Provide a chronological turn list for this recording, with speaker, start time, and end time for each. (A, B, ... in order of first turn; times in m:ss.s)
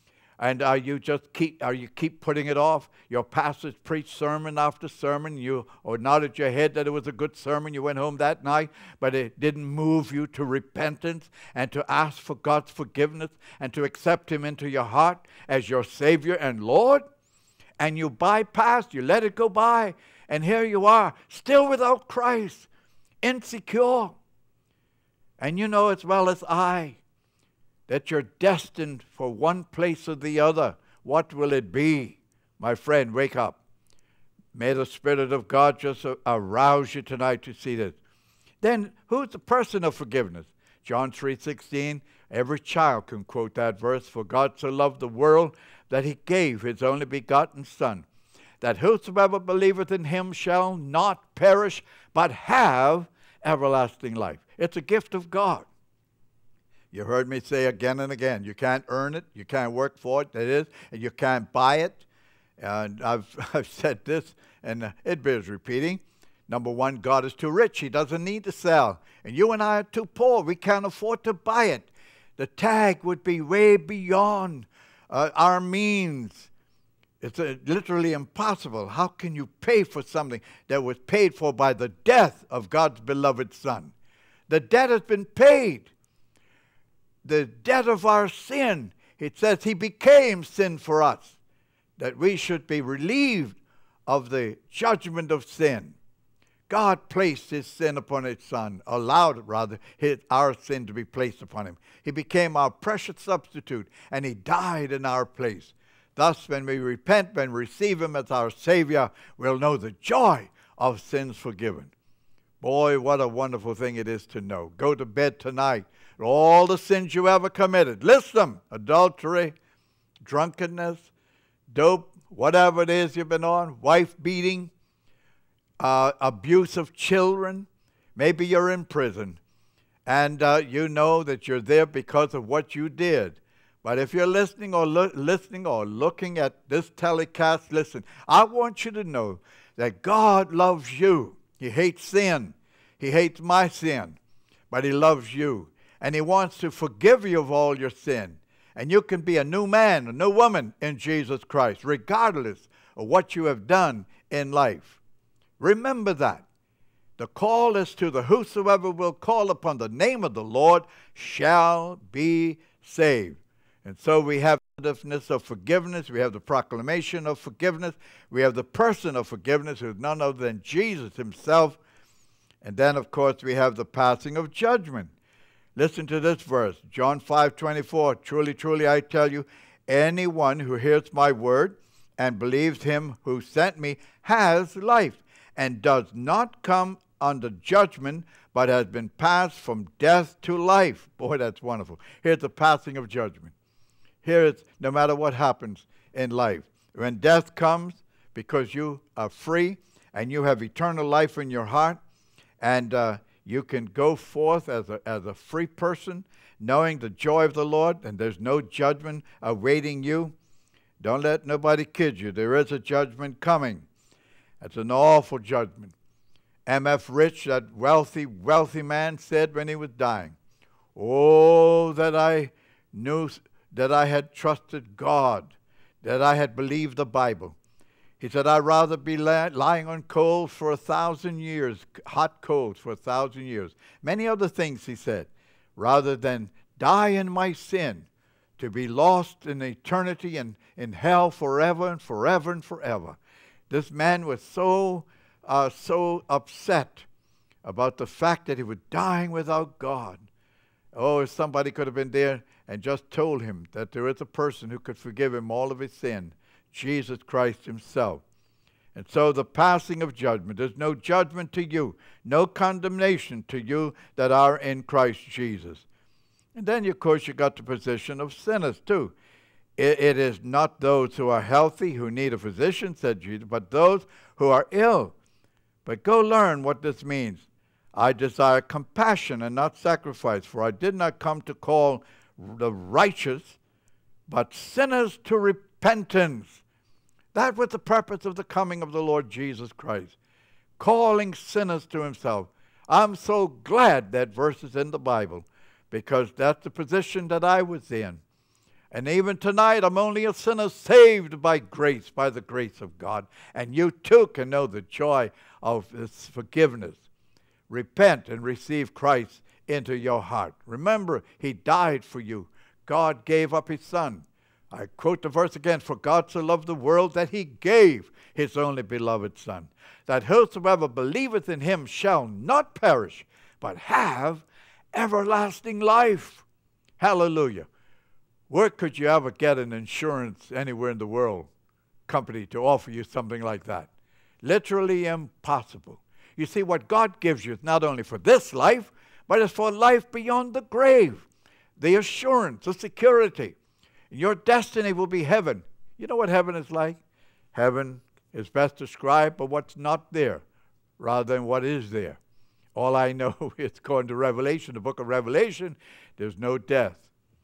0:00.4-0:17.0 A
0:17.8-0:22.7 A
0:23.2-0:24.2 A
0:25.4-0:27.0 A
0:27.9-0:33.6 A
0:34.5-0:38.0 A
0:38.6-0:48.1 A
0:48.6-0:55.7 A
0:56.9-1:02.0 A
1:02.6-1:16.5 A
1:17.2-1:23.9 A
1:24.5-1:25.9 A
1:27.2-1:31.4 A
1:32.0-1:36.0 A
1:36.7-1:51.9 A
1:52.6-1:59.6 A
2:00.2-2:01.1 A
2:01.7-2:04.7 A
2:05.8-2:09.4 A
2:10.1-2:24.2 A
2:24.7-2:35.0 A
2:35.6-2:36.4 A
2:37.2-2:51.8 A
2:52.6-2:55.1 A
2:55.8-3:13.5 A
3:14.2-3:22.0 A
3:22.6-3:30.4 A
3:31.0-3:33.9 A
3:34.6-3:35.9 A
3:36.7-3:40.4 A
3:41.0-3:47.6 A
3:48.2-3:58.1 A
3:58.6-4:03.2 A
4:03.7-4:07.1 A
4:07.6-4:10.2 A
4:10.9-4:18.2 A
4:19.0-4:25.8 A
4:26.6-4:29.1 A
4:29.8-4:35.1 A
4:35.8-4:43.6 A
4:44.3-4:46.6 A
4:47.3-4:50.2 A
4:50.8-4:58.2 A
4:58.9-5:07.0 A
5:07.7-5:26.4 A
5:27.0-5:27.7 A
5:28.5-5:31.5 A
5:32.1-5:33.9 A
5:34.4-5:41.3 A
5:41.8-5:43.6 A
5:44.1-5:47.0 A
5:47.5-5:50.4 A
5:51.0-5:52.2 A
5:52.8-5:57.1 A